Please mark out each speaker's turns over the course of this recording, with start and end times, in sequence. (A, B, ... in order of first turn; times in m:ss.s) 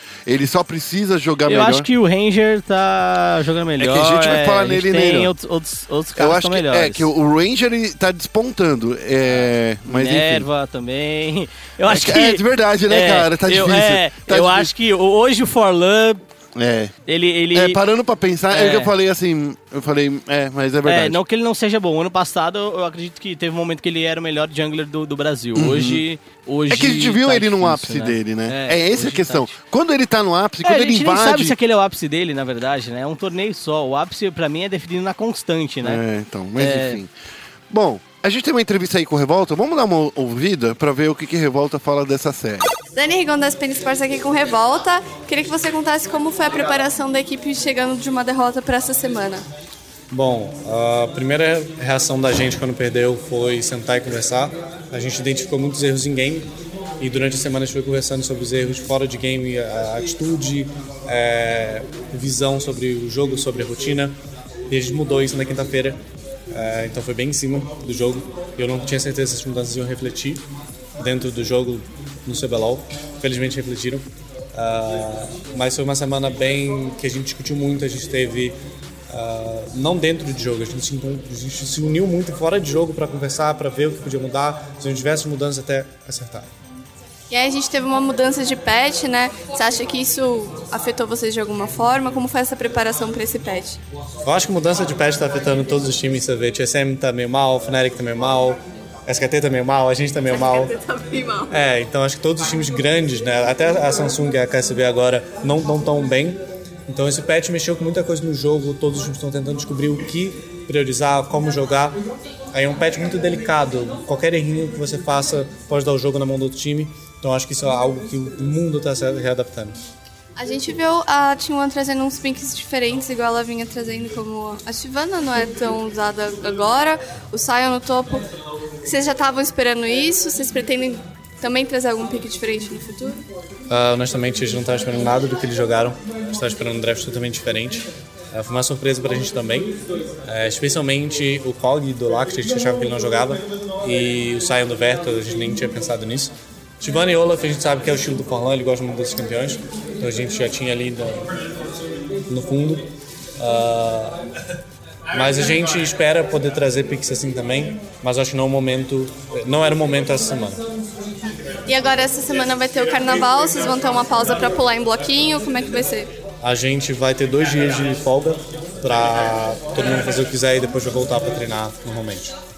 0:00.3-0:01.9 A
0:01.5-0:07.1 B
0:03.8-0:05.3 A
0:06.2-0:10.5 A
0:09.3-0:16.2 B
0:11.9-0:14.7 A
0:16.6-0:16.9 A
0:17.1-0:17.8 B
0:17.5-0:21.2 A
0:18.5-0:18.9 B
0:20.8-0:29.6 B
0:25.6-0:26.0 A
0:26.7-0:31.6 A
0:30.6-0:36.0 B
0:35.8-0:37.1 A
0:36.6-0:37.0 B
0:37.7-0:42.7 A
0:42.9-0:49.4 C
0:50.1-0:56.5 D
0:57.0-1:04.2 D
1:04.7-1:06.0 D
1:06.5-1:10.4 D
1:11.0-1:14.0 D
1:14.6-1:18.6 D
1:19.1-1:26.5 D
1:27.3-1:33.8 C
1:34.2-1:40.8 D
1:40.3-1:41.5 C
1:41.5-1:52.0 D
1:52.5-1:59.8 D
2:00.4-2:08.2 C
2:08.8-2:13.2 C
2:13.7-2:31.4 D
2:32.3-2:32.9 D
2:33.4-2:34.2 D
2:35.1-2:40.6 D
2:41.7-2:46.1 C
2:46.4-2:52.3 D